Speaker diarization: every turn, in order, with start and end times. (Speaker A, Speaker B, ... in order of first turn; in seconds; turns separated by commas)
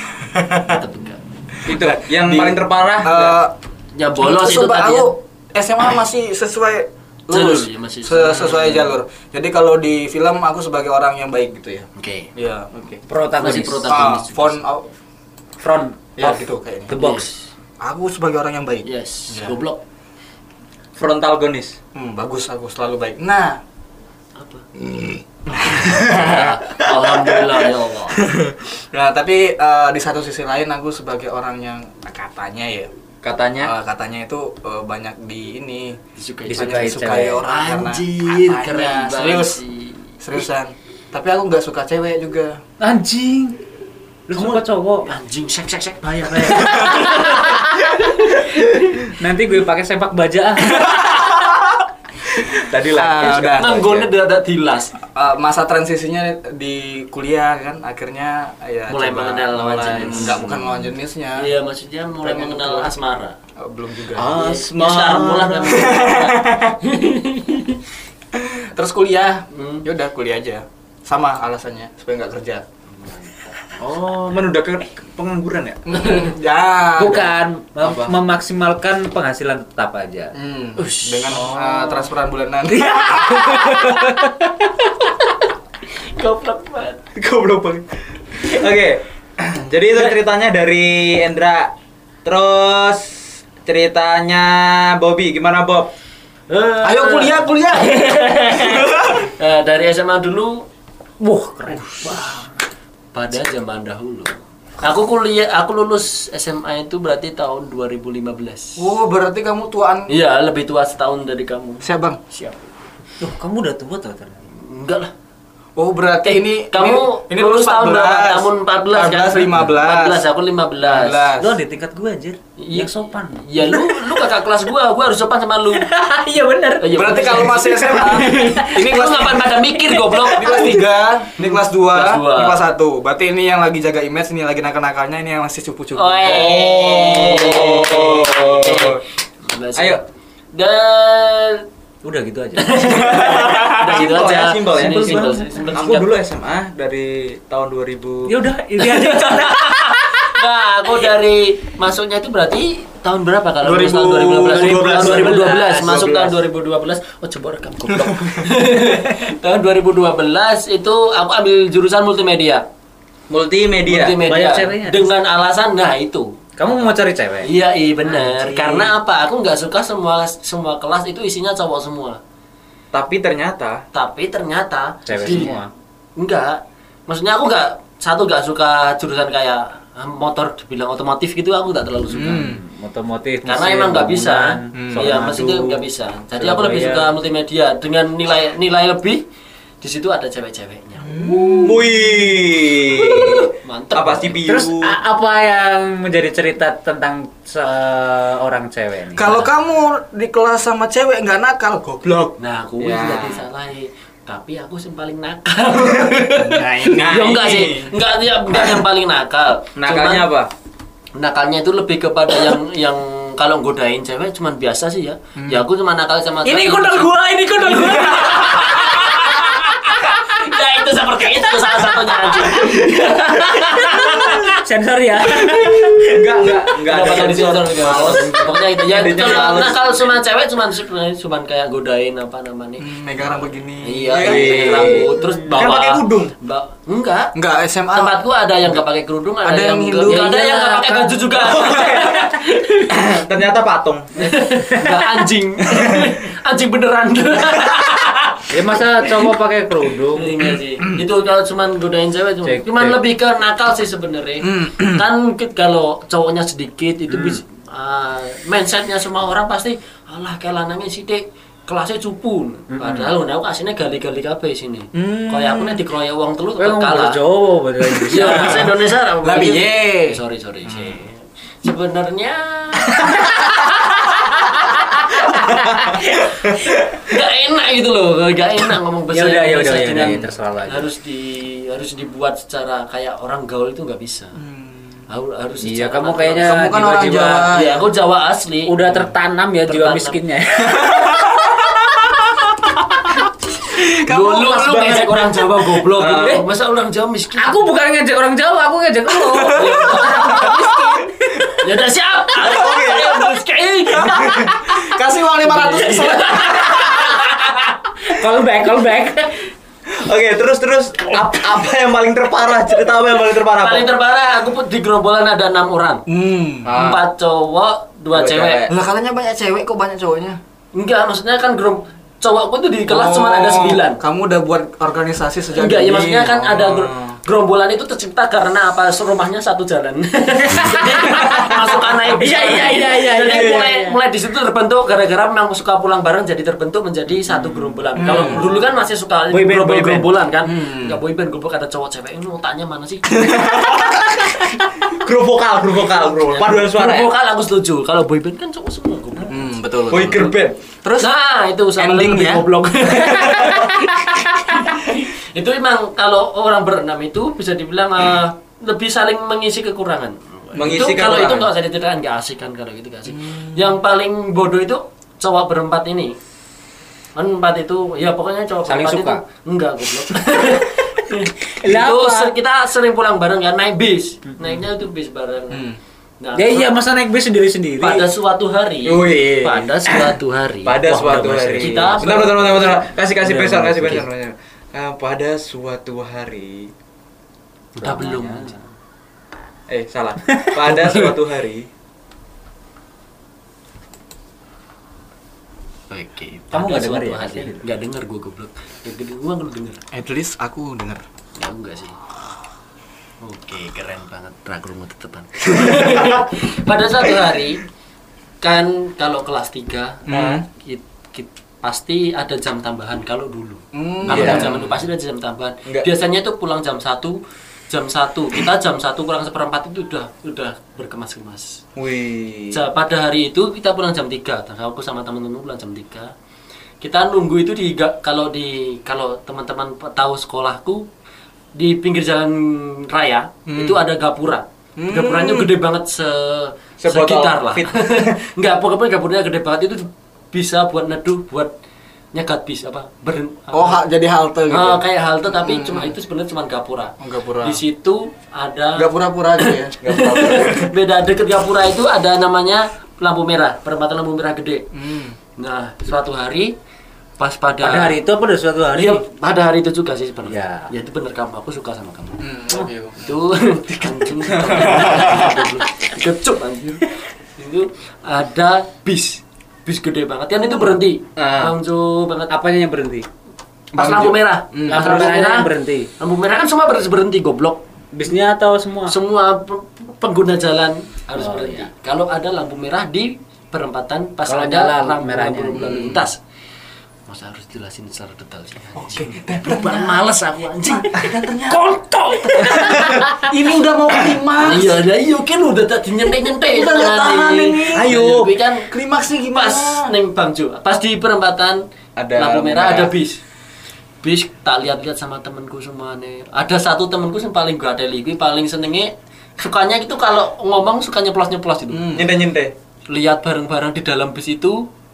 Speaker A: 0.3-0.8, Speaker B: 0.6-1.2, Speaker C: 1.6-3.4, Speaker A: 1.6-3.6, Speaker B: 3.9-5.1, Speaker A: 4.2-13.0, Speaker B: 7.3-9.0, Speaker B: 12.0-12.3, Speaker D: 13.1-14.1, Speaker B: 13.4-14.6, Speaker A: 13.9-14.9, Speaker D: 15.6-17.3, Speaker A: 16.2-17.0, Speaker B: 16.9-17.5, Speaker A: 17.8-19.6, Speaker B: 18.8-19.8, Speaker C: 21.0-21.8, Speaker A: 21.9-23.6, Speaker B: 24.4-24.6, Speaker A: 25.5-26.5, Speaker B: 25.6-28.2, Speaker A: 27.1-27.6, Speaker A: 28.1-32.9, Speaker C: 33.2-33.7, Speaker A: 33.6-39.6, Speaker B: 36.2-40.5, Speaker D: 36.5-37.4, Speaker A: 40.2-42.6, Speaker D: 42.8-43.6, Speaker D: 44.3-45.1, Speaker B: 44.4-47.9, Speaker A: 46.7-47.0, Speaker D: 46.8-47.9, Speaker D: 49.1-51.4, Speaker A: 50.8-51.5, Speaker C: 52.5-53.8, Speaker A: 52.9-54.1, Speaker B: 53.2-54.9, Speaker A: 55.1-61.5, Speaker B: 58.9-60.7, Speaker B: 61.4-63.4, Speaker A: 62.2-62.9, Speaker A: 63.6-64.4, Speaker C: 64.1-66.0, Speaker B: 64.3-67.8, Speaker A: 65.6-66.8, Speaker A: 68.3-72.6, Speaker B: 69.5-69.9, Speaker B: 73.0-73.8, Speaker C: 73.8-76.0, Speaker A: 75.9-77.3, Speaker D: 77.0-80.3, Speaker C: 77.8-78.1, Speaker A: 80.3-83.9, Speaker B: 80.8-81.6, Speaker C: 81.3-82.0, Speaker B: 83.3-84.1, Speaker B: 86.0-87.0, Speaker C: 87.2-91.7, Speaker C: 92.2-95.9, Speaker B: 96.5-100.7, Speaker A: 96.8-99.3, Speaker D: 101.2-102.5, Speaker B: 101.7-102.4, Speaker B: 103.1-108.9, Speaker A: 108.8-110.1, Speaker B: 110.1-112.7, Speaker A: 111.8-112.2, Speaker D: 113.2-114.4, Speaker B: 114.5-115.1, Speaker A: 115.8-120.2, Speaker B: 116.2-121.3, Speaker A: 120.8-121.6, Speaker D: 121.4-124.2, Speaker B: 122.6-125.9, Speaker D: 125.8-128.8, Speaker B: 126.8-132.6, Speaker A: 126.9-129.6, Speaker D: 129.9-130.6, Speaker A: 130.2-136.7, Speaker B: 135.9-141.7, Speaker C: 136.2-139.0, Speaker C: 139.8-140.0, Speaker D: 142.0-143.1, Speaker B: 142.6-146.1, Speaker C: 142.8-148.3, Speaker A: 143.3-144.0, Speaker D: 145.1-145.6, Speaker D: 148.3-150.3, Speaker B: 148.8-162.7, Speaker A: 153.6-155.4, Speaker C: 154.4-156.0, Speaker D: 154.5-156.2, Speaker A: 158.1-158.4, Speaker C: 163.3-164.2, Speaker B: 163.8-172.2, Speaker D: 164.2-165.1, Speaker D: 166.6-167.5, Speaker D: 168.2-168.8, Speaker C: 172.9-173.8, Speaker B: 173.9-175.6, Speaker D: 175.1-175.7, Speaker B: 176.2-182.6, Speaker A: 182.1-182.6, Speaker D: 182.2-187.1, Speaker B: 183.5-189.2, Speaker A: 184.8-185.1, Speaker B: 189.8-191.4, Speaker A: 191.0-192.0, Speaker C: 191.6-195.0, Speaker B: 193.1-194.4, Speaker D: 194.5-199.5, Speaker A: 199.2-202.3, Speaker B: 202.4-210.3, Speaker C: 202.8-203.4, Speaker A: 206.3-207.9, Speaker C: 206.8-207.9, Speaker C: 209.8-210.5, Speaker B: 211.2-224.6, Speaker A: 215.4-215.7, Speaker D: 216.4-220.0, Speaker D: 223.5-226.6, Speaker C: 226.1-229.8, Speaker B: 226.8-232.9, Speaker A: 232.8-235.1, Speaker B: 233.8-237.3, Speaker C: 234.1-236.3, Speaker A: 237.3-238.2, Speaker B: 237.9-243.0, Speaker A: 239.4-240.4, Speaker D: 240.1-241.2, Speaker C: 241.4-242.3, Speaker C: 242.9-244.1, Speaker B: 244.2-248.5, Speaker D: 244.6-245.1, Speaker C: 245.7-246.1, Speaker D: 248.5-250.3, Speaker B: 250.2-267.2, Speaker D: 252.4-253.0, Speaker A: 254.4-255.0, Speaker D: 257.1-257.4, Speaker D: 262.7-263.1, Speaker A: 264.9-265.8, Speaker D: 266.6-268.7, Speaker B: 268.0-273.6, Speaker A: 268.1-271.0, Speaker D: 274.5-275.9, Speaker B: 277.0-284.4, Speaker D: 279.1-280.9, Speaker A: 280.0-280.3, Speaker A: 284.4-285.0, Speaker B: 285.1-286.6, Speaker D: 285.6-287.5, Speaker A: 286.4-287.9, Speaker B: 287.5-288.8, Speaker D: 288.6-291.4, Speaker B: 289.7-290.2, Speaker A: 290.8-291.5, Speaker A: 293.8-295.4, Speaker B: 294.1-297.6, Speaker C: 295.9-296.4, Speaker D: 296.2-296.4, Speaker D: 297.4-301.6, Speaker A: 299.2-300.9, Speaker B: 299.5-300.7, Speaker B: 301.6-304.4, Speaker A: 302.4-303.3, Speaker C: 302.4-303.2, Speaker A: 303.9-307.3, Speaker C: 304.1-304.5, Speaker B: 305.4-307.7, Speaker D: 308.1-309.4, Speaker C: 309.9-313.9, Speaker B: 313.5-316.1, Speaker A: 316.1-316.7, Speaker C: 316.6-317.1, Speaker B: 316.7-318.7, Speaker C: 318.1-318.8, Speaker A: 318.7-320.4, Speaker B: 320.7-324.0, Speaker A: 322.9-327.1, Speaker B: 325.5-343.4, Speaker D: 330.7-331.5, Speaker A: 331.2-331.5, Speaker D: 332.1-334.0, Speaker A: 337.9-338.6, Speaker D: 339.3-340.1, Speaker A: 340.4-341.0, Speaker A: 343.1-344.0, Speaker C: 344.9-347.1, Speaker B: 346.3-350.2, Speaker A: 349.3-350.3, Speaker C: 349.9-350.6, Speaker A: 350.8-351.1, Speaker B: 351.0-366.2, Speaker A: 351.8-352.5, Speaker C: 353.2-353.6, Speaker C: 360.6-361.5, Speaker A: 363.1-363.6, Speaker B: 367.1-375.7, Speaker D: 368.7-369.2, Speaker D: 371.6-372.3, Speaker A: 375.5-375.8, Speaker B: 376.2-376.7, Speaker D: 376.4-378.1, Speaker B: 377.8-382.8, Speaker C: 378.8-386.7, Speaker D: 380.9-381.9, Speaker D: 383.2-384.0, Speaker D: 387.8-388.5, Speaker B: 387.8-388.6, Speaker C: 389.7-391.7, Speaker B: 395.9-399.8, Speaker D: 396.5-397.6, Speaker A: 399.9-401.0, Speaker B: 401.4-402.0, Speaker B: 403.2-407.6, Speaker B: 408.4-417.2, Speaker A: 410.1-410.5, Speaker A: 413.7-414.8, Speaker C: 414.1-414.7, Speaker B: 417.7-421.6, Speaker C: 421.8-422.6, Speaker B: 422.5-426.1, Speaker B: 426.8-430.9, Speaker B: 431.6-441.5, Speaker A: 433.5-433.8, Speaker A: 434.8-435.5, Speaker C: 436.8-438.2, Speaker B: 442.1-443.8, Speaker A: 443.5-445.9, Speaker B: 444.5-454.7, Speaker A: 447.0-447.6, Speaker A: 448.8-450.7, Speaker C: 449.8-450.5, Speaker A: 454.7-455.2, Speaker B: 455.4-456.6, Speaker B: 457.2-458.0, Speaker D: 457.6-459.0, Speaker B: 458.8-462.3, Speaker D: 460.3-460.7, Speaker A: 462.2-463.1, Speaker B: 463.0-472.3, Speaker A: 464.3-465.4, Speaker C: 471.2-471.6, Speaker D: 472.3-473.1, Speaker B: 473.7-477.6, Speaker A: 473.8-475.2, Speaker D: 474.7-475.9, Speaker D: 477.9-478.9, Speaker B: 478.9-486.2, Speaker D: 481.2-481.7, Speaker D: 484.3-485.9, Speaker A: 485.6-486.0, Speaker B: 487.1-493.0, Speaker A: 488.8-490.1, Speaker A: 490.7-491.6, Speaker A: 492.4-494.8, Speaker D: 492.5-493.1, Speaker B: 494.4-498.7, Speaker A: 496.4-497.9, Speaker C: 497.7-498.3, Speaker A: 498.7-499.9, Speaker B: 499.3-501.6, Speaker C: 502.0-502.9, Speaker B: 502.1-503.2, Speaker B: 504.0-512.0, Speaker A: 511.7-512.1, Speaker C: 511.9-512.5, Speaker B: 512.9-514.7